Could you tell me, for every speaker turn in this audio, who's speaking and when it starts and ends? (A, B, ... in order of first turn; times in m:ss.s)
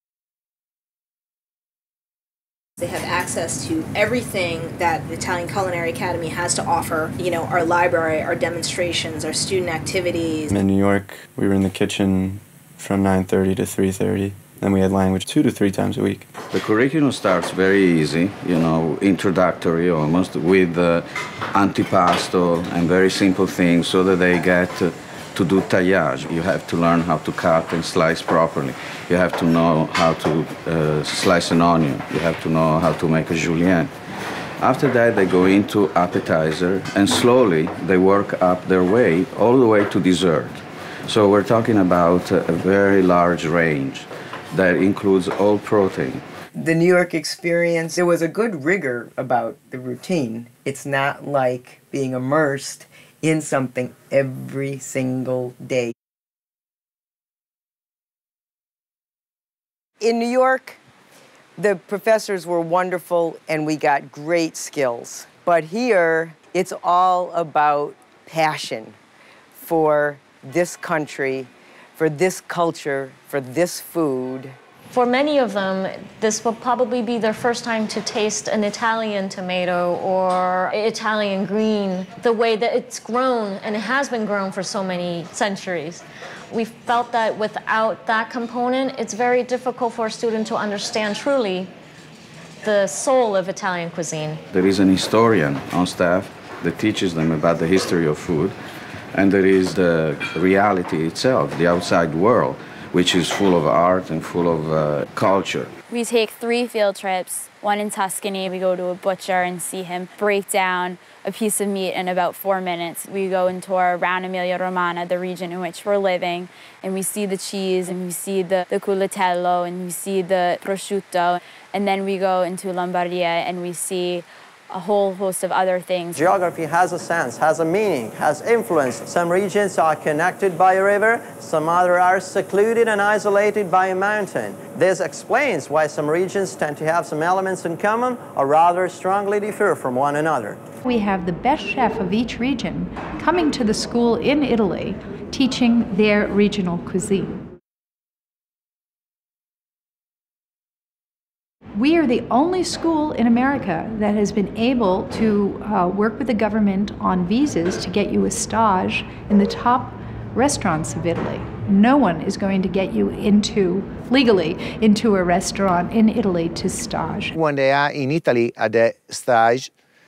0:02.8-0:10.5 A
0:10.5-0:16.2 B
0:16.5-0:33.9 C
0:34.6-0:46.2 C
0:46.5-0:55.9 D
1:00.0-1:00.8 D
1:01.6-1:09.0 D
1:09.6-1:14.6 D
1:14.9-1:31.7 E
1:32.6-1:34.4 E
1:34.5-1:38.6 C
1:39.1-1:45.7 C
1:45.9-2:06.2 F
2:06.2-2:20.6 G
2:20.8-2:27.4 H
2:31.8-2:47.3 H
2:47.4-2:49.7 I